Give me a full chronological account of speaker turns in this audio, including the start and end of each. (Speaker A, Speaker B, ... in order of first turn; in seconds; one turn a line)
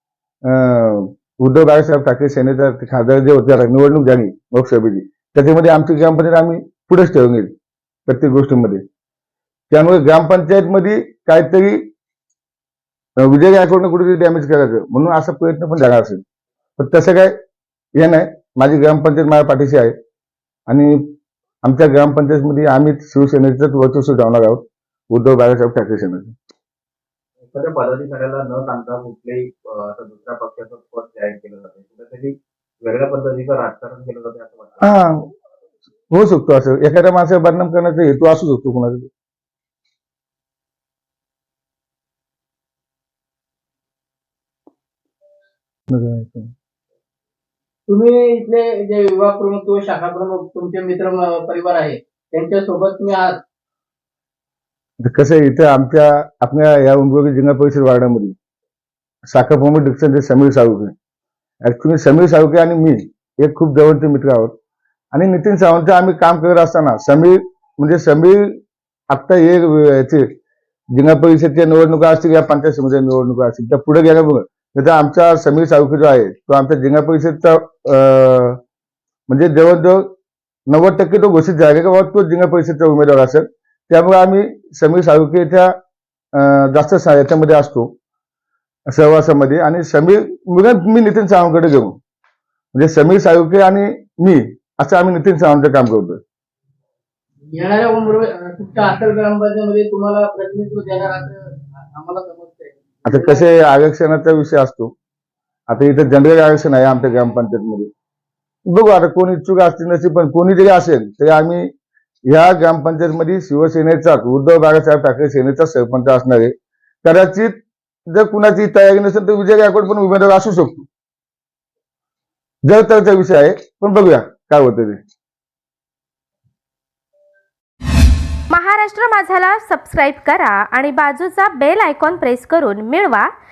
Speaker A: 0.5-7.5
Speaker A: 8.1-8.8
Speaker A: 9.7-11.9
Speaker A: 13.2-16.2
Speaker A: 16.8-17.3
Speaker A: 18.0-19.9
Speaker A: 20.7-21.0
Speaker A: 21.6-26.3
Speaker B: 27.4-34.8
Speaker A: 34.8-35.2
Speaker A: 36.1-39.1
Speaker A: 45.9-46.5
Speaker C: 47.9-53.4
Speaker A: 55.0-58.4
Speaker A: 59.3-60.9
Speaker A: 61.6-64.5
Speaker A: 65.1-68.5
Speaker A: 69.1-70.2
Speaker A: 70.9-78.6
Speaker A: 79.3-80.0
Speaker A: 80.7-85.7
Speaker A: 86.3-87.9
Speaker A: 88.9-92.0
Speaker A: 92.7-96.2
Speaker C: 97.5-101.4
Speaker C: 101.9-103.4
Speaker A: 103.0-104.9
Speaker A: 105.7-107.9
Speaker A: 108.7-111.7
Speaker A: 112.3-116.5
Speaker A: 117.0-117.5
Speaker A: 118.1-120.8
Speaker A: 122.7-125.0
Speaker D: 128.5-133.3